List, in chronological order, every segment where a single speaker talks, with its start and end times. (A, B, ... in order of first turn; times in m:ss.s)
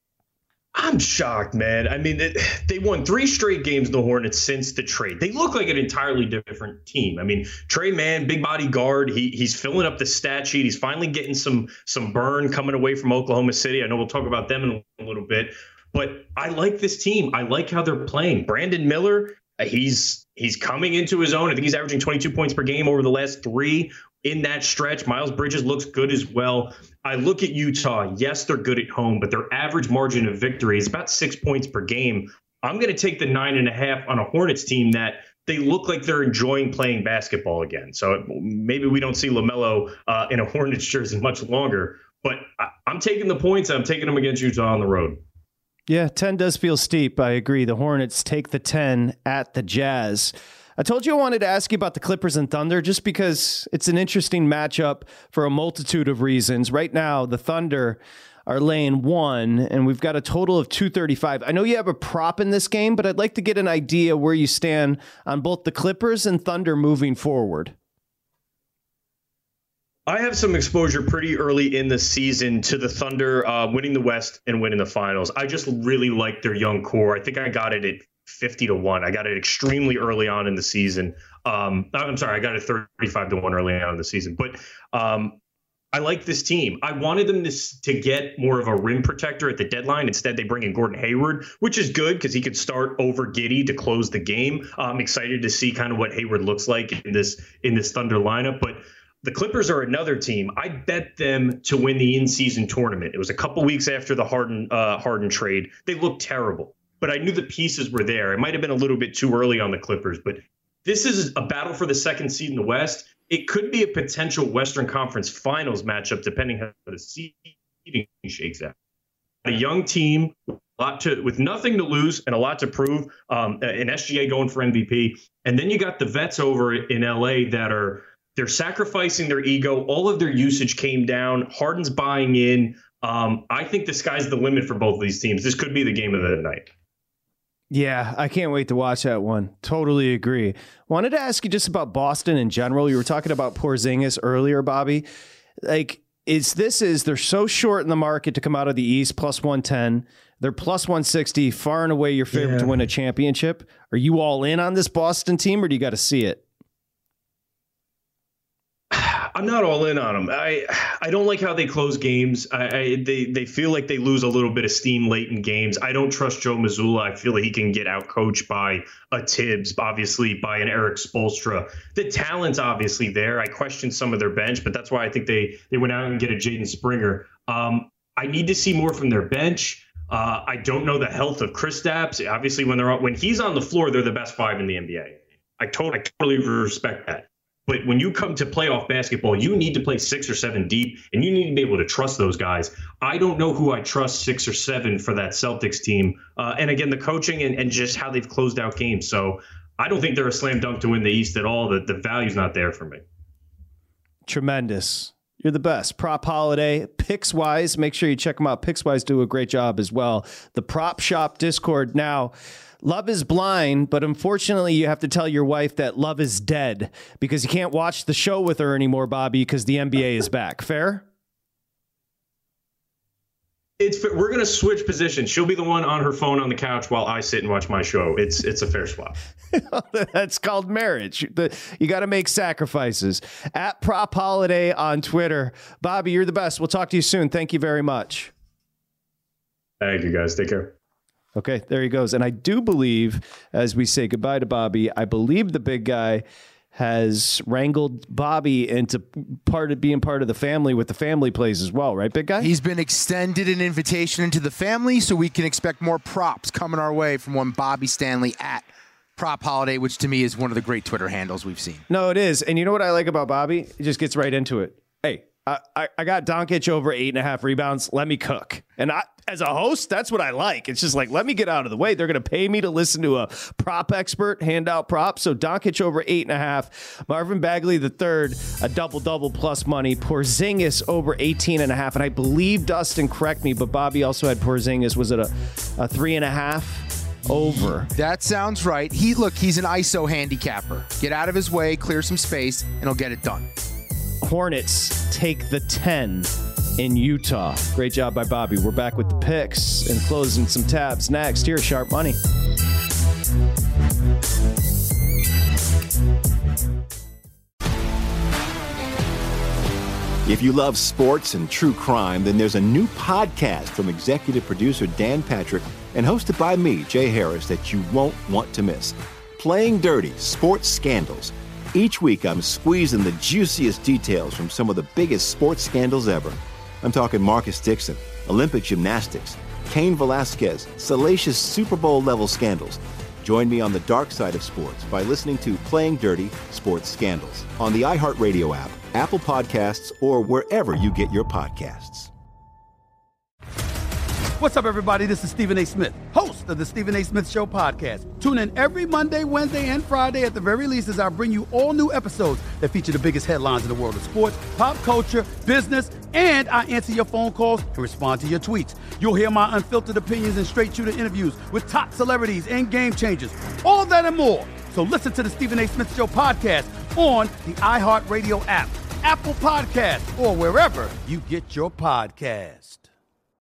0:00.7-0:45.2 A
0:45.9-1:07.7 B
1:10.1-1:25.4 A
1:25.9-1:58.7 A
1:59.4-2:16.7 A
2:17.7-2:25.1 B
2:25.6-2:36.4 B
2:32.3-2:32.7 A
2:38.9-3:23.0 A
3:24.3-3:41.1 B
3:43.8-3:49.2 A
3:49.5-3:58.3 B
3:59.8-4:00.7 A
4:01.4-4:12.5 B
4:12.4-4:21.8 C
4:21.9-4:47.9 B
4:47.3-4:53.5 C
4:54.2-5:02.2 B
5:10.2-5:42.1 D
5:44.4-6:12.9 E